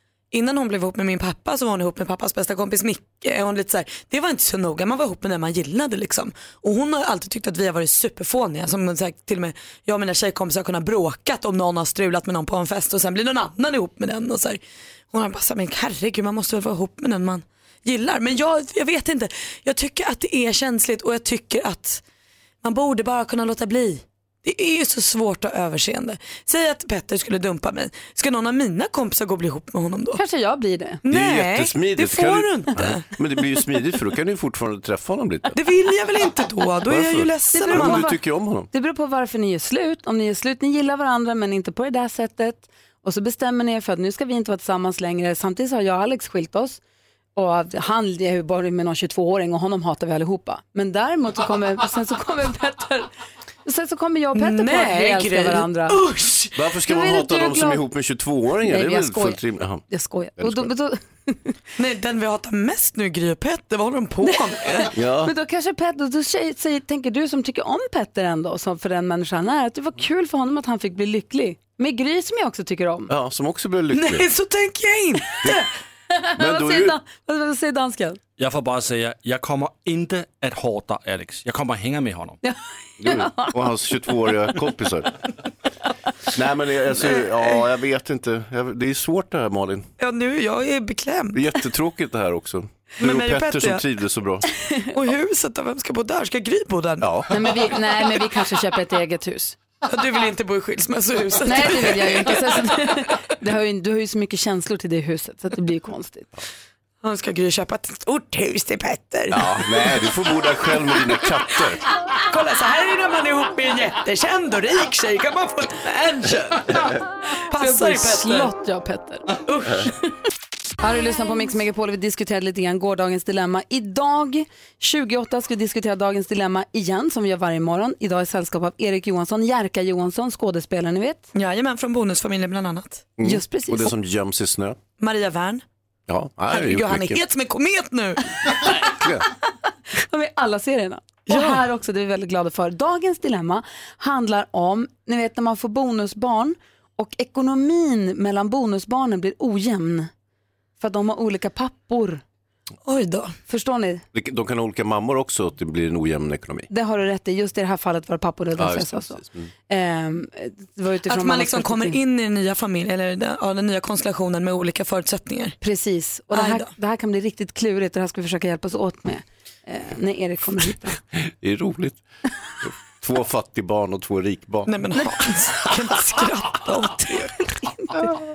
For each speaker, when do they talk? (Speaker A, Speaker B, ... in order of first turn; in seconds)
Speaker A: 0.3-14.6, 15.1-22.0, 22.6-30.2, 31.0-33.0, 35.5-38.1, 54.3-56.5, 61.8-64.9, 73.9-75.5, 90.0-91.4, 93.0-93.8, 94.9-97.1, 99.9-102.8, 107.0-110.0, 112.2-116.9, 117.5-118.5, 119.5-119.9, 131.3-133.1, 135.0-135.6, 136.5-138.6, 141.3-141.6, 152.8-153.3, 161.1-165.6, 166.3-166.7, 174.7-177.4
Speaker B: 30.1-31.0, 37.5-38.2, 38.7-46.8, 47.4-53.1, 53.6-56.0, 56.9-57.8, 58.6-61.5, 64.2-73.1, 76.1-78.2, 82.4-83.5, 97.3-99.6, 101.5-106.3, 117.5-119.4, 120.8-131.3, 133.2-133.9, 139.9-150.1, 150.8-152.2, 153.5-154.0, 156.7-162.0, 165.6-171.0
Speaker C: 31.1-35.6, 36.9-38.7, 56.5-59.8, 60.4-60.7, 64.9-65.3, 73.1-74.3, 76.4-77.0, 83.0-85.2, 86.3-89.9, 91.3-94.5, 97.0-97.3, 109.3-111.8, 133.2-134.8, 136.1-137.2, 138.8-139.2, 154.1-156.7, 158.6-159.5, 171.2-172.0, 172.6-174.7
Speaker D: 78.4-82.4